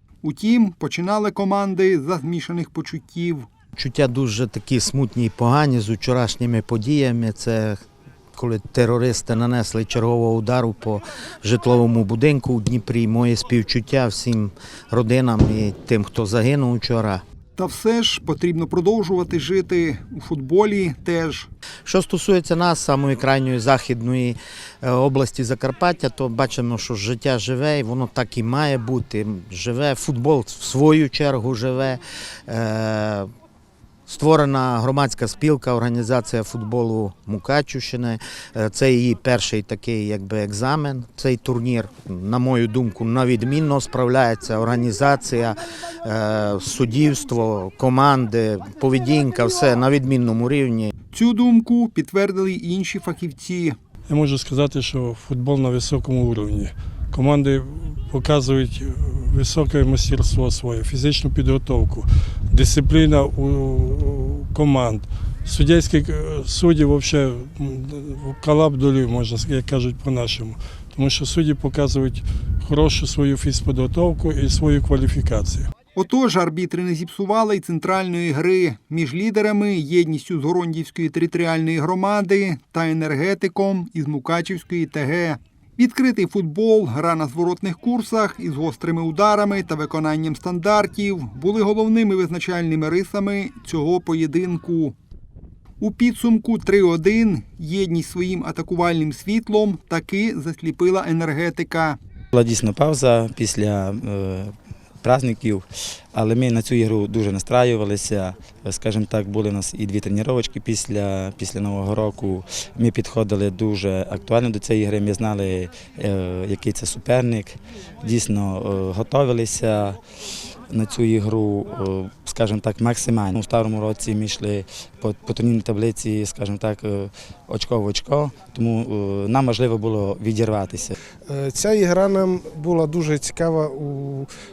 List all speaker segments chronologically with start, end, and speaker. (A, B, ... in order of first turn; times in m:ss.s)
0:00.2-0:03.4 A
0:03.8-0:07.8 B
0:08.3-0:17.2 B
0:17.6-0:21.5 A
0:21.8-0:33.3 B
0:34.1-0:50.9 B
0:51.1-0:53.7 A
0:54.1-1:15.7 C
1:16.0-1:35.0 A
1:35.8-1:42.0 A
1:42.3-2:00.0 D
2:00.7-2:10.9 D
2:11.3-2:14.3 E